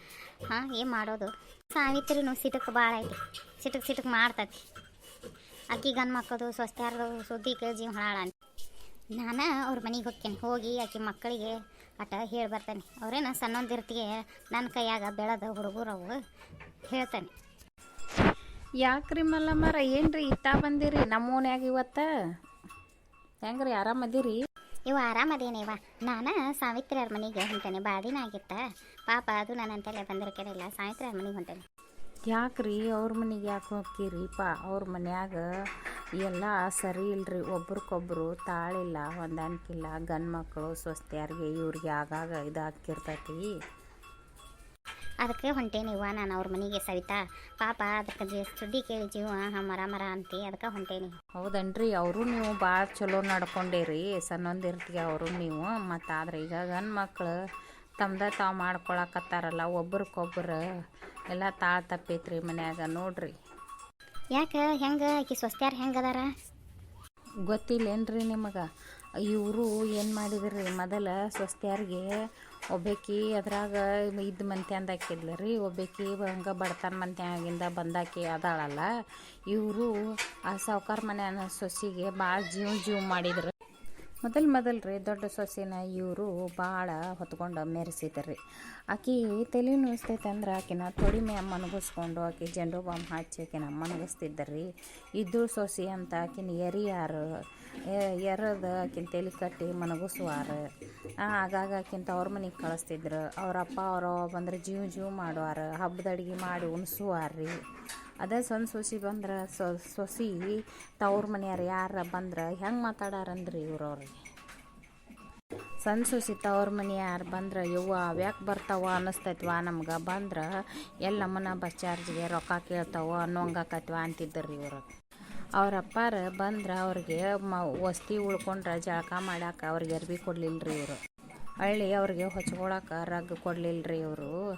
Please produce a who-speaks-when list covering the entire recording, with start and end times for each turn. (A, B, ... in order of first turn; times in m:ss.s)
0:00.5-0:04.6 A
0:05.7-0:08.3 A
0:09.2-0:16.2 A
0:16.9-0:17.3 A
0:18.8-0:22.1 B
0:23.4-0:24.4 B
0:24.9-0:31.6 A
0:32.3-0:35.4 B
0:36.2-0:43.4 B
0:45.2-0:51.2 A
0:51.4-0:57.3 B
0:58.0-1:00.6 B
1:01.3-1:03.3 B
1:04.4-1:06.3 A
1:07.5-1:08.6 B
1:09.3-1:12.1 B
1:12.7-1:18.8 B
1:19.5-1:19.9 B
1:20.5-1:23.5 B
1:24.2-1:28.4 B
1:28.9-1:34.7 B
1:35.2-1:37.2 B
1:38.2-1:40.6 B
1:41.2-1:47.5 B
1:48.2-1:54.2 B
1:55.8-2:00.4 B
2:01.0-2:04.8 B
2:05.6-2:11.0 B
2:11.6-2:14.3 B